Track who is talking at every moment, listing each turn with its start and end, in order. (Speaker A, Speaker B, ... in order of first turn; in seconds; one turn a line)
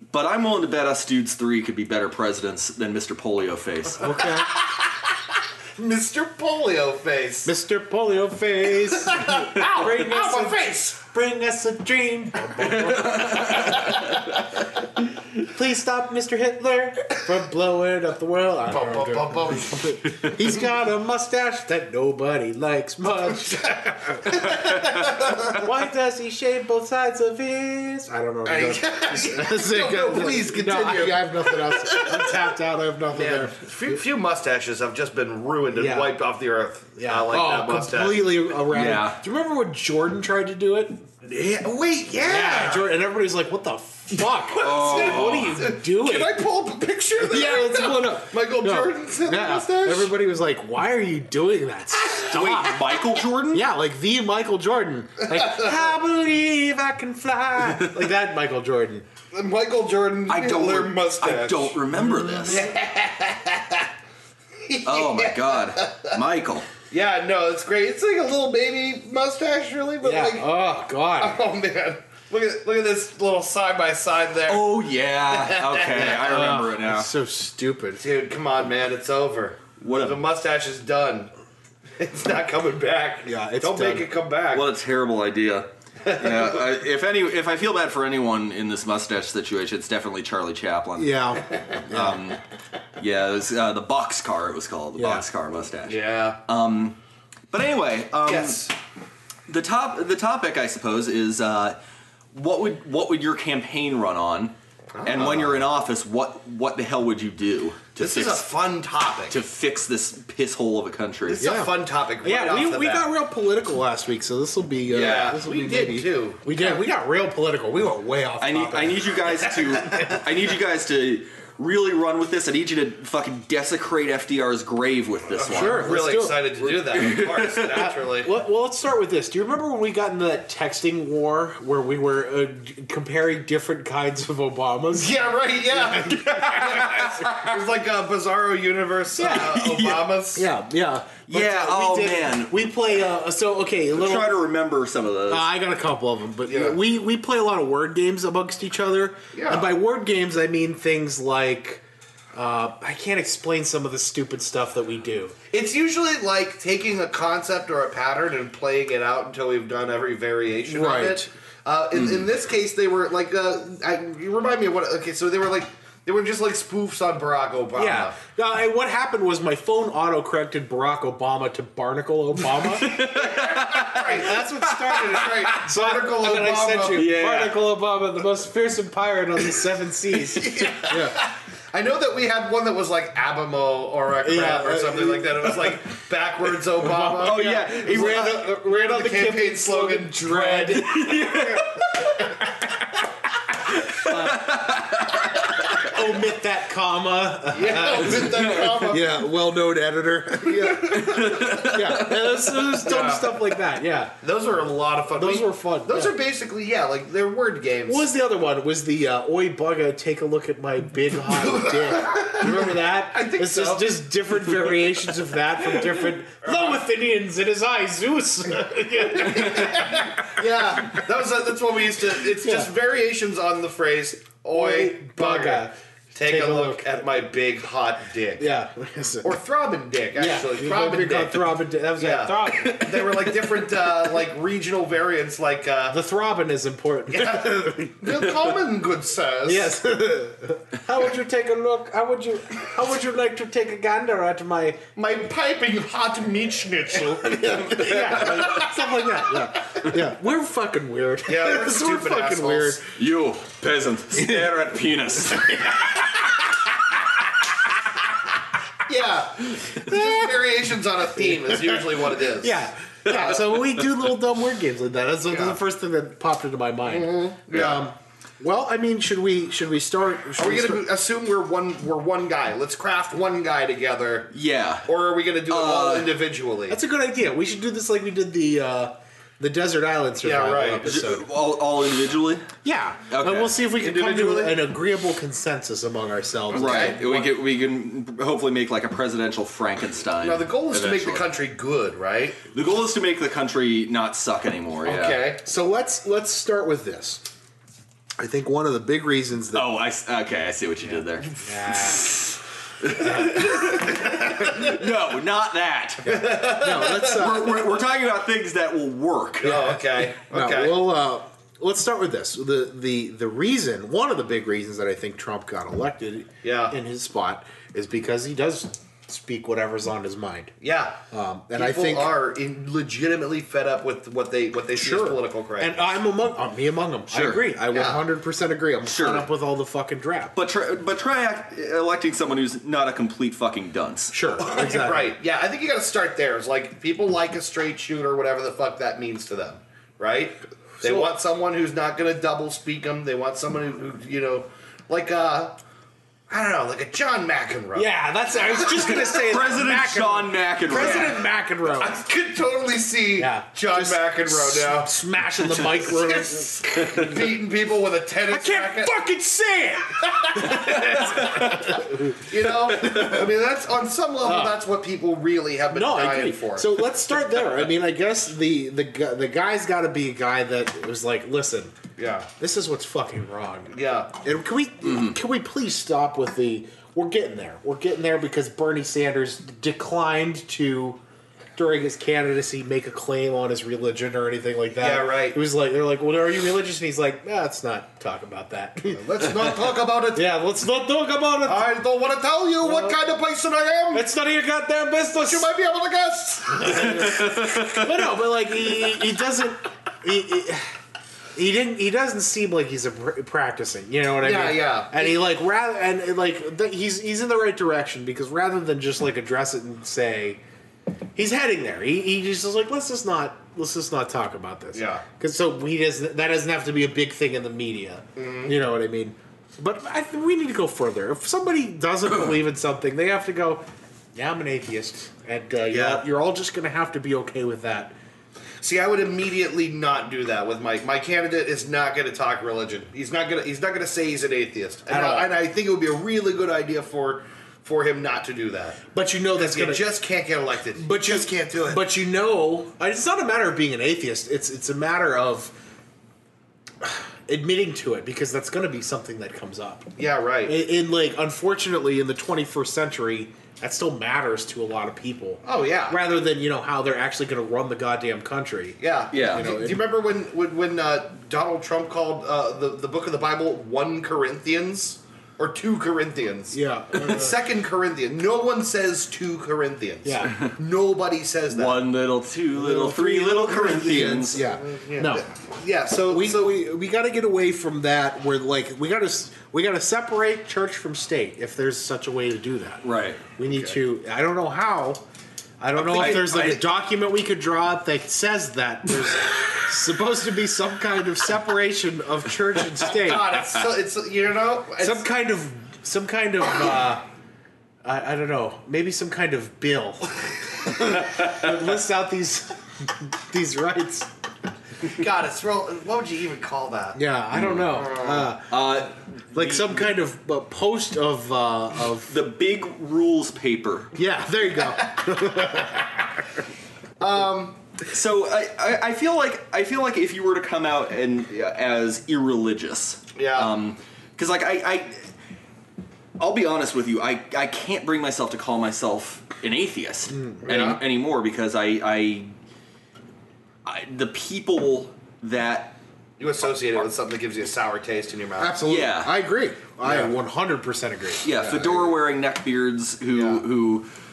Speaker A: 0.1-4.2
Speaker B: 4.0-4.5
Speaker C: 4.4-7.5
Speaker B: 7.4-14.2
Speaker C: 8.8-11.0
Speaker A: 12.6-13.9
Speaker B: 15.3-33.5
Speaker C: 18.7-20.0
Speaker C: 24.2-25.6
Speaker C: 28.4-32.5
Speaker C: 33.1-38.5
Speaker B: 35.7-36.1
Speaker B: 37.0-41.0
Speaker A: 38.7-39.2
Speaker C: 41.2-42.9
Speaker B: 42.2-46.4
Speaker C: 44.4-50.1
Speaker A: 44.5-45.6
Speaker B: 47.2-53.0
Speaker A: 52.1-53.6
Speaker B: 53.5-59.0
Speaker C: 55.3-55.8
Speaker C: 59.3-61.8
Speaker A: 60.3-62.6
Speaker C: 62.5-63.9
Speaker C: 64.6-66.2
Speaker A: 64.8-66.7
Speaker C: 66.9-70.5
Speaker B: 70.0-71.4
Speaker C: 71.2-76.2
Speaker A: 74.5-77.1
Speaker B: 76.0-78.0
Speaker C: 78.0-81.3
Speaker A: 79.8-80.2
Speaker C: 82.0-84.7
Speaker B: 83.2-84.1
Speaker A: 84.5-92.4
Speaker C: 86.0-86.6
Speaker B: 91.0-92.2
Speaker A: 93.0-97.0
Speaker B: 95.0-95.2
Speaker C: 95.8-96.4
Speaker A: 97.5-98.7
Speaker C: 98.2-98.7
Speaker A: 99.5-101.8
Speaker A: 102.3-104.5
Speaker C: 104.9-105.7
Speaker A: 105.0-108.5
Speaker C: 108.0-109.3
Speaker A: 109.3-111.4
Speaker C: 111.2-113.1
Speaker B: 111.4-119.0
Speaker C: 114.9-116.8
Speaker A: 118.4-125.9
Speaker C: 125.3-128.3
Speaker B: 125.5-126.5
Speaker A: 126.5-127.9
Speaker B: 127.7-135.2
Speaker C: 134.9-140.4
Speaker B: 135.8-136.9
Speaker B: 139.2-139.7
Speaker A: 139.3-140.1
Speaker B: 140.3-144.4
Speaker A: 141.3-142.6
Speaker A: 143.9-145.5
Speaker B: 145.3-151.8
Speaker C: 146.4-146.8
Speaker C: 149.3-149.7
Speaker B: 152.3-155.3
Speaker C: 155.5-168.2
Speaker B: 160.7-161.3
Speaker A: 161.9-162.2
Speaker B: 167.8-172.9
Speaker A: 172.6-175.4
Speaker C: 172.9-177.1
Speaker B: 174.0-181.2
Speaker A: 176.9-177.7
Speaker C: 180.2-191.6
Speaker B: 184.2-185.5
Speaker B: 186.8-191.6
Speaker A: 187.1-188.5
Speaker A: 190.9-191.7
Speaker B: 192.2-192.7
Speaker A: 193.8-195.8
Speaker B: 193.9-194.5
Speaker B: 195.7-204.2
Speaker C: 197.5-199.2
Speaker A: 198.3-198.7
Speaker C: 200.4-201.3
Speaker A: 200.9-202.7
Speaker C: 202.8-203.4
Speaker C: 204.2-208.1
Speaker B: 205.2-206.2
Speaker B: 207.9-220.3
Speaker C: 211.3-214.9
Speaker C: 215.7-216.8
Speaker C: 219.1-228.5
Speaker B: 222.4-222.7
Speaker B: 224.5-227.0
Speaker B: 228.4-229.3
Speaker C: 229.2-236.0
Speaker B: 230.1-233.3
Speaker B: 235.9-238.2
Speaker C: 237.1-239.7
Speaker B: 239.4-244.8
Speaker C: 244.9-248.9
Speaker B: 247.7-252.9
Speaker C: 251.2-252.8
Speaker A: 252.9-256.1
Speaker C: 258.8-263.4
Speaker B: 259.9-260.2
Speaker B: 261.5-270.8
Speaker C: 265.3-265.6
Speaker C: 266.9-267.8
Speaker C: 270.3-274.3
Speaker A: 274.3-276.2
Speaker C: 274.8-276.8
Speaker B: 276.7-281.3
Speaker C: 280.2-281.0
Speaker A: 280.8-282.4
Speaker B: 282.6-287.4
Speaker A: 283.1-283.6
Speaker C: 283.7-284.7
Speaker C: 286.5-287.0
Speaker A: 286.5-291.3
Speaker C: 290.2-292.4
Speaker A: 292.5-295.2
Speaker C: 294.8-295.4
Speaker B: 295.4-297.2
Speaker B: 298.2-299.7
Speaker A: 299.5-301.4
Speaker B: 301.4-302.2
Speaker A: 301.9-302.3
Speaker A: 302.8-309.6
Speaker B: 303.0-303.6
Speaker C: 306.0-307.5
Speaker B: 306.1-307.6
Speaker C: 309.4-310.9
Speaker B: 309.4-320.5
Speaker C: 316.4-316.8
Speaker C: 320.6-321.0
Speaker B: 321.1-322.1
Speaker C: 321.5-325.8
Speaker B: 324.8-330.3
Speaker A: 327.1-327.5
Speaker C: 327.7-328.0
Speaker A: 328.8-329.3
Speaker A: 330.3-334.1
Speaker B: 334.1-335.1
Speaker C: 334.4-345.6
Speaker B: 340.8-341.1
Speaker C: 346.3-349.0
Speaker B: 347.7-351.9
Speaker A: 348.8-351.2
Speaker C: 350.7-354.9
Speaker B: 353.2-357.1
Speaker C: 355.7-358.9
Speaker B: 358.3-362.2
Speaker A: 360.5-361.6
Speaker C: 362.1-366.9
Speaker B: 364.2-364.6
Speaker B: 365.7-371.7
Speaker C: 372.0-372.3
Speaker B: 372.4-381.0
Speaker C: 373.7-374.1
Speaker B: 381.6-391.7
Speaker C: 384.8-385.4
Speaker C: 388.9-390.3
Speaker C: 391.4-394.1
Speaker B: 392.6-393.0
Speaker B: 393.9-395.5
Speaker C: 395.2-397.4
Speaker B: 396.7-400.7
Speaker B: 401.3-410.4
Speaker C: 404.2-405.2
Speaker B: 411.1-427.9
Speaker C: 414.7-415.0
Speaker C: 418.1-418.5
Speaker C: 425.7-426.0
Speaker C: 428.6-438.8
Speaker B: 434.9-435.3
Speaker B: 438.9-439.8
Speaker C: 439.4-441.8
Speaker B: 440.8-445.5
Speaker B: 446.8-449.9
Speaker C: 450.0-450.6
Speaker B: 450.4-459.8
Speaker C: 455.4-456.0
Speaker C: 458.8-471.9
Speaker A: 459.1-459.5
Speaker B: 466.5-467.4
Speaker B: 470.0-470.5
Speaker A: 471.5-474.4
Speaker B: 472.7-475.3
Speaker C: 472.7-476.6
Speaker B: 476.1-485.0
Speaker A: 482.8-483.2
Speaker C: 483.4-483.8
Speaker B: 485.6-493.4
Speaker A: 485.8-486.6
Speaker C: 492.8-495.1
Speaker B: 494.8-497.0
Speaker B: 497.8-504.1
Speaker C: 504.8-507.0
Speaker B: 506.9-512.2
Speaker A: 507.3-507.6
Speaker C: 507.7-508.4
Speaker A: 508.5-509.9
Speaker A: 512.1-513.9
Speaker B: 513.9-515.9
Speaker C: 514.9-515.7
Speaker C: 517.0-517.6
Speaker A: 517.9-525.0
Speaker C: 523.1-523.5
Speaker A: 526.2-532.3
Speaker B: 530.1-530.4
Speaker C: 530.4-530.8
Speaker A: 533.6-535.8
Speaker C: 536.2-538.6
Speaker B: 538.4-541.5
Speaker A: 538.6-539.1
Speaker C: 539.8-540.1
Speaker A: 541.2-543.9
Speaker C: 541.5-541.8
Speaker C: 543.1-543.4